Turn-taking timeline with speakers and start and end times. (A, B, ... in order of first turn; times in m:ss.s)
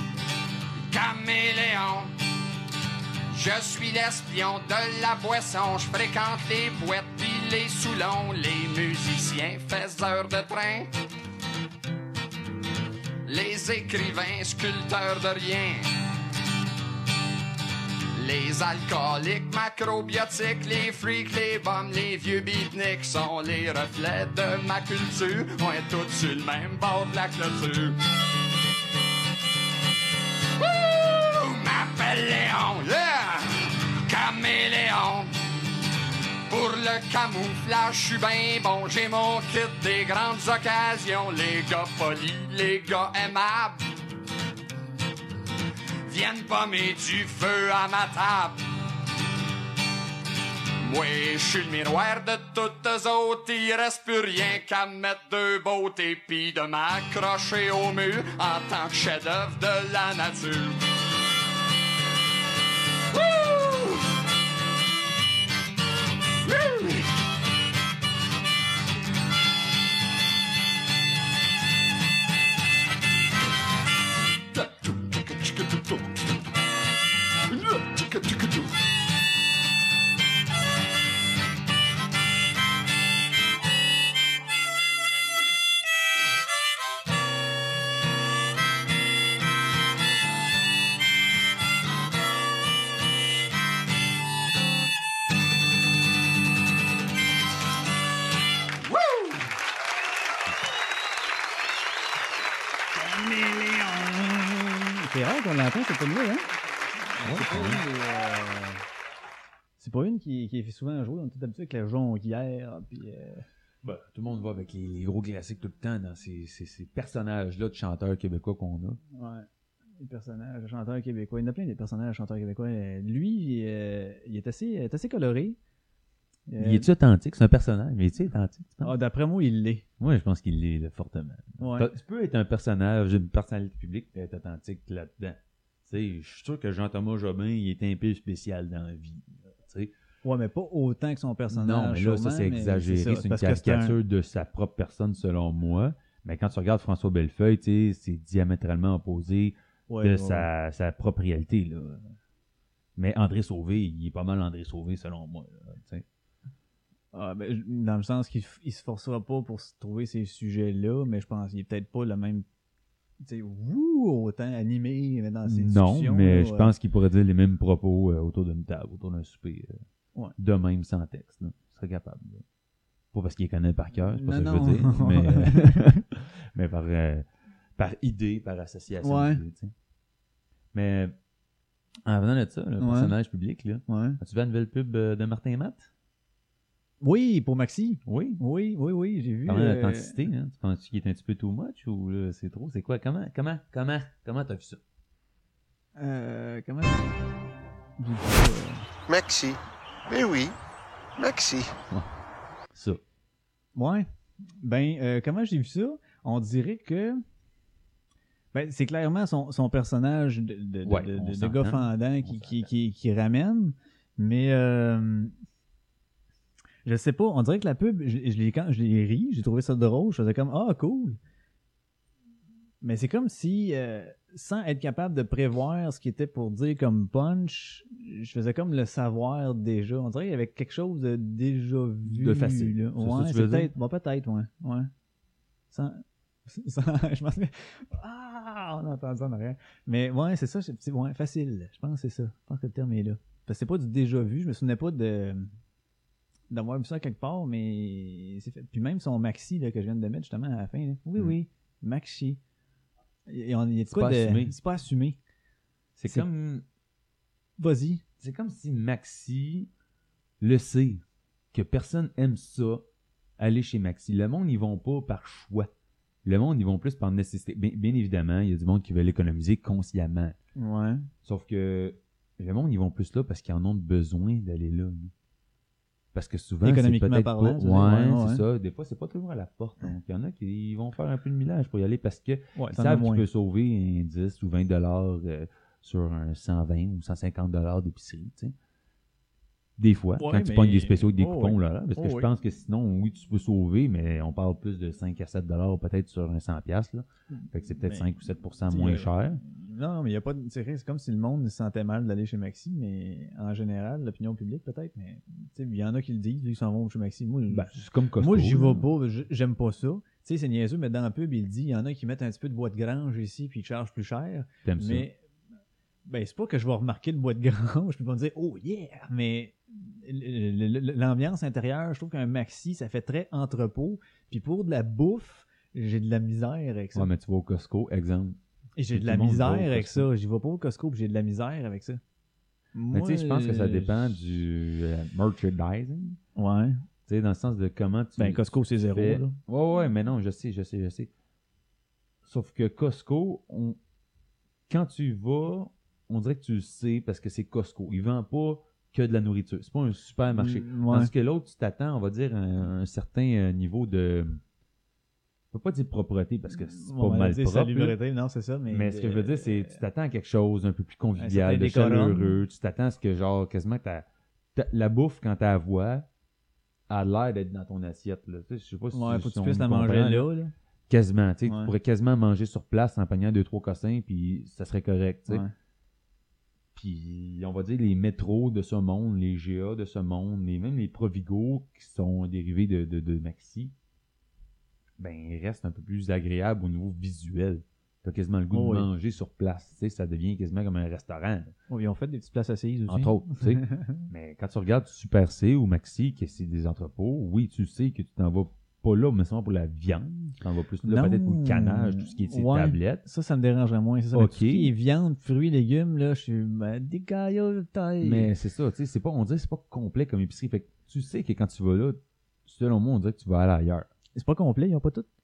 0:00.8-0:02.1 A
0:03.3-0:10.9 A
0:13.2-0:15.9 A
0:18.2-0:28.0 A
0:30.6-0:35.4 A
0:36.5-0:43.8 A
0:46.0-0:48.6 A
0:50.8-1:00.8 A
1:03.1-1:04.1 A
1:06.4-1:07.1 A
1:14.6-1:16.4 A
1:42.9-1:46.5 B
1:47.1-1:48.8 B
1:47.2-1:47.8 C
1:49.8-1:53.4 B
1:53.8-1:59.0 C
1:59.1-1:59.5 B
2:00.0-2:05.6 B
2:06.5-2:06.9 B
2:06.6-2:09.0 C
2:08.8-2:09.8 B
2:10.0-2:19.9 C
2:11.6-2:11.9 B
2:20.2-2:24.0 B
2:21.5-2:32.1 C
2:29.9-2:30.5 B
2:33.0-2:36.0 C
2:37.1-2:42.5 B
2:43.2-2:46.7 B
2:45.4-2:49.8 C
2:50.4-2:52.4 C
2:53.1-2:57.3 C
2:54.1-2:56.0 B
2:57.8-2:59.7 C
2:59.0-2:59.4 B
3:00.7-3:01.2 C
3:02.0-3:05.9 C
3:02.8-3:03.1 B
3:03.9-3:04.2 B
3:07.0-3:10.2 B
3:08.1-3:08.4 C
3:09.5-3:14.8 C
3:16.0-3:17.1 B
3:18.0-3:18.9 B
3:19.1-3:20.6 D
3:21.2-3:21.8 D
3:22.7-3:23.0 C
3:23.8-3:24.1 B
3:24.6-3:27.2 B
3:28.5-3:35.3 B
3:30.8-3:32.7 C
3:36.8-3:41.2 B
3:42.8-3:54.9 B
3:52.1-3:53.7 C
3:55.7-4:05.5 B
4:06.5-4:12.4 B
4:13.3-4:15.2 B
4:13.9-4:14.6 C
4:16.0-4:16.6 C
4:17.6-4:18.0 B
4:18.2-4:19.7 C
4:20.4-4:22.9 C
4:23.4-4:25.7 C
4:26.2-4:30.4 C
4:30.6-4:31.1 B
4:31.2-4:35.1 C
4:36.1-4:48.6 C
4:36.6-4:38.4 B
4:42.6-4:43.2 B
4:49.8-4:59.4 C
4:50.2-4:52.3 B
4:57.3-4:58.1 B
4:58.7-5:15.2 B
5:07.5-5:08.9 C
5:14.6-5:15.1 C
5:16.1-5:27.1 B
5:27.0-5:28.4 C
5:28.8-5:32.0 B
5:28.9-5:30.1 C
5:32.8-5:34.0 B
5:32.9-5:36.2 C
5:36.4-5:36.8 B
5:37.1-5:41.1 C
5:38.2-5:39.4 B
5:42.2-5:43.8 C
5:44.7-5:54.4 C
5:50.3-5:51.1 B
5:55.5-5:58.0 C
5:56.5-5:59.8 B
5:58.7-6:06.1 C
6:01.2-6:02.4 B
6:06.9-6:10.3 C
6:08.9-6:10.5 B
6:10.9-6:15.4 C
6:11.5-6:11.7 B
6:16.8-6:23.7 C
6:25.0-6:31.5 C
6:28.5-6:28.9 B
6:31.7-6:34.0 B
6:32.9-6:43.0 C
6:40.8-6:48.3 B
6:44.1-6:44.7 C
6:48.0-6:53.9 C
6:54.2-6:55.1 B